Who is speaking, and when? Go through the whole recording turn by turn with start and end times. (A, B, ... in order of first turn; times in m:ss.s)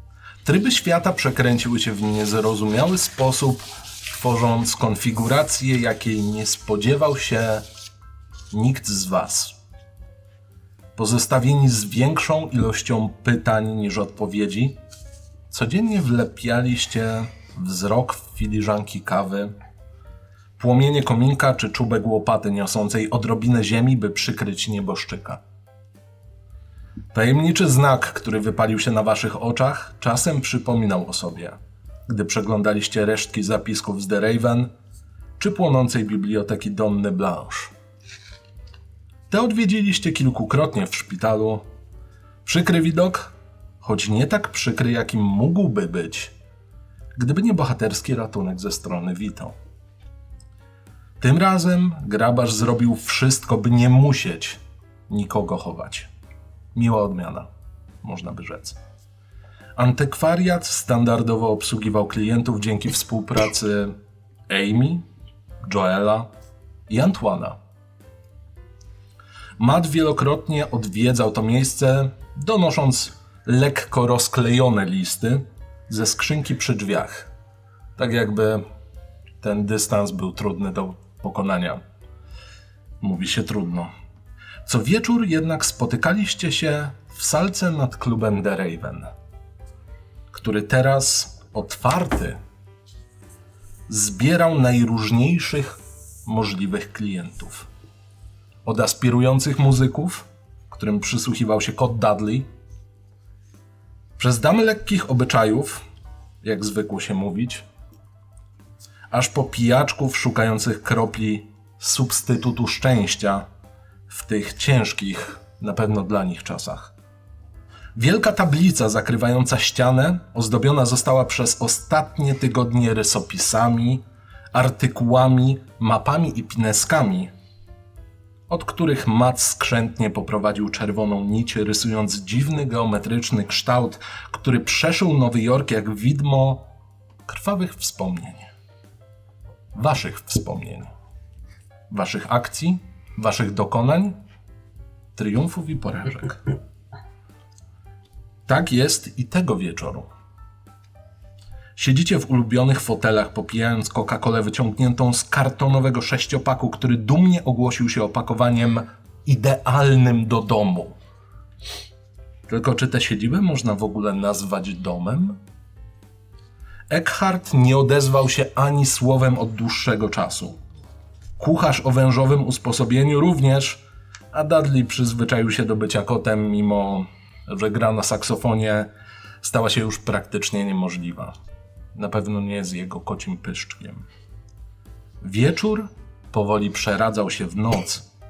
0:00.4-0:07.6 A
0:08.5-0:09.5 A
0:11.0-0:14.8 A
0:15.5-0:19.5 A
0:20.6-0:25.4 A
0:27.1-0:34.7 A
0:35.4-0:37.7 A
0:39.3-0:41.6 A
0:42.4-0:46.3 A
0:47.2-0:49.6 A
0:51.2-0:56.1 A
0:56.7-0:57.5 A
0:58.0-0:58.8 A
0:59.8-1:04.0 A
1:04.5-1:05.0 A
1:05.6-1:06.3 A
1:06.9-1:07.6 A
1:09.6-1:17.3 A
1:18.0-1:18.6 A
1:19.4-1:21.8 A
1:23.0-1:23.9 A
1:24.6-1:29.1 A
1:30.3-1:32.4 A
1:33.9-1:37.7 A
1:38.6-1:42.5 A
1:44.2-1:45.8 A
1:46.4-1:47.6 A
1:49.1-1:53.5 A
1:54.1-1:56.9 A
1:57.9-2:07.3 A
2:08.5-2:16.6 A
2:17.2-2:18.5 A
2:19.7-2:20.9 A
2:21.9-2:24.2 A
2:25.2-2:26.4 A
2:28.5-2:30.1 A
2:31.8-2:41.0 A
2:42.5-2:45.4 A
2:46.9-2:50.6 A
2:51.4-2:58.9 A
2:59.4-3:01.4 A
3:01.9-3:04.0 A
3:05.2-3:08.0 A